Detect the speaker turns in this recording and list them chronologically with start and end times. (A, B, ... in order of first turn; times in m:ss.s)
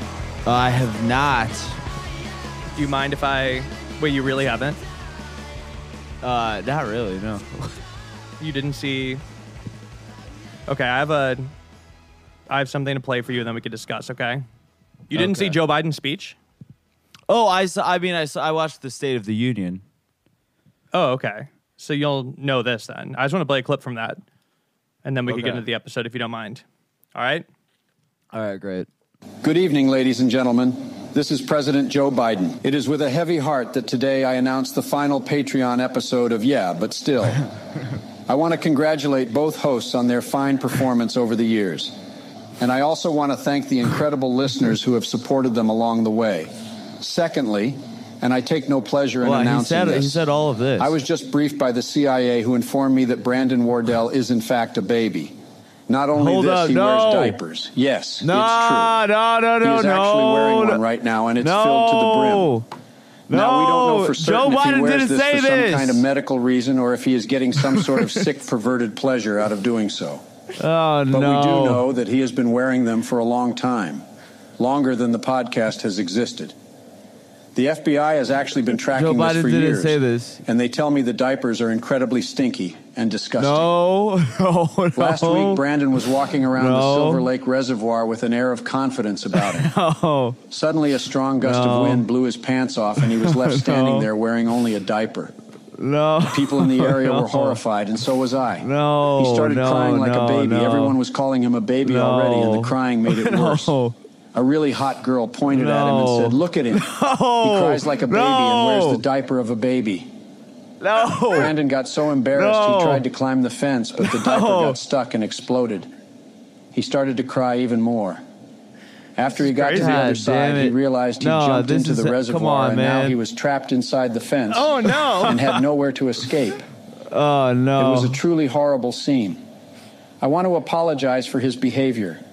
0:00.4-0:01.8 A
0:02.7-0:04.8 B
0:06.2-0:07.8 A
0:08.4-0:09.2 B
0:10.7-0:11.5 B
0:12.5-0:14.4 B
0:15.1-0:16.4 B
0:15.2-0:15.6 A
0:17.3-0:19.8 A
0:20.9-0:24.2 B
0:25.0-0:26.6 B
0:25.3-0:25.6 A
0:27.2-0:27.4 B
0:28.3-0:28.9 A
0:29.4-0:37.4 C
0:38.3-0:42.0 C
0:42.6-0:50.2 C
0:49.2-0:51.0 A
0:50.8-0:55.4 C
0:55.9-0:59.0 C
0:56.1-0:57.4 A
0:58.2-1:00.8 A
0:59.6-1:02.5 C
1:01.4-1:02.7 A
1:03.3-1:06.0 A
1:03.3-1:10.2 C
1:07.7-1:08.2 A
1:10.6-1:11.9 A
1:11.1-1:14.0 C
1:14.6-1:16.6 C
1:17.6-1:23.7 C
1:18.9-1:20.4 A
1:23.4-1:25.6 A
1:25.0-1:29.7 C
1:26.6-1:27.3 A
1:29.3-1:30.4 A
1:30.5-1:35.3 C
1:31.4-1:32.0 A
1:33.0-1:34.1 A
1:35.8-1:37.6 A
1:36.2-1:43.8 C
1:38.6-1:41.0 A
1:41.8-1:43.9 A
1:44.3-1:46.9 C
1:45.5-1:49.0 A
1:47.4-1:50.1 C
1:50.8-1:51.5 A
1:51.3-1:55.9 C
1:52.3-1:53.1 A
1:54.0-1:54.8 A
1:56.7-1:58.2 C
1:59.2-2:06.6 C
1:59.5-2:03.2 A
2:04.5-2:05.5 B
2:04.8-2:05.4 A
2:07.1-2:08.2 A
2:07.8-2:09.4 C
2:10.2-2:12.2 C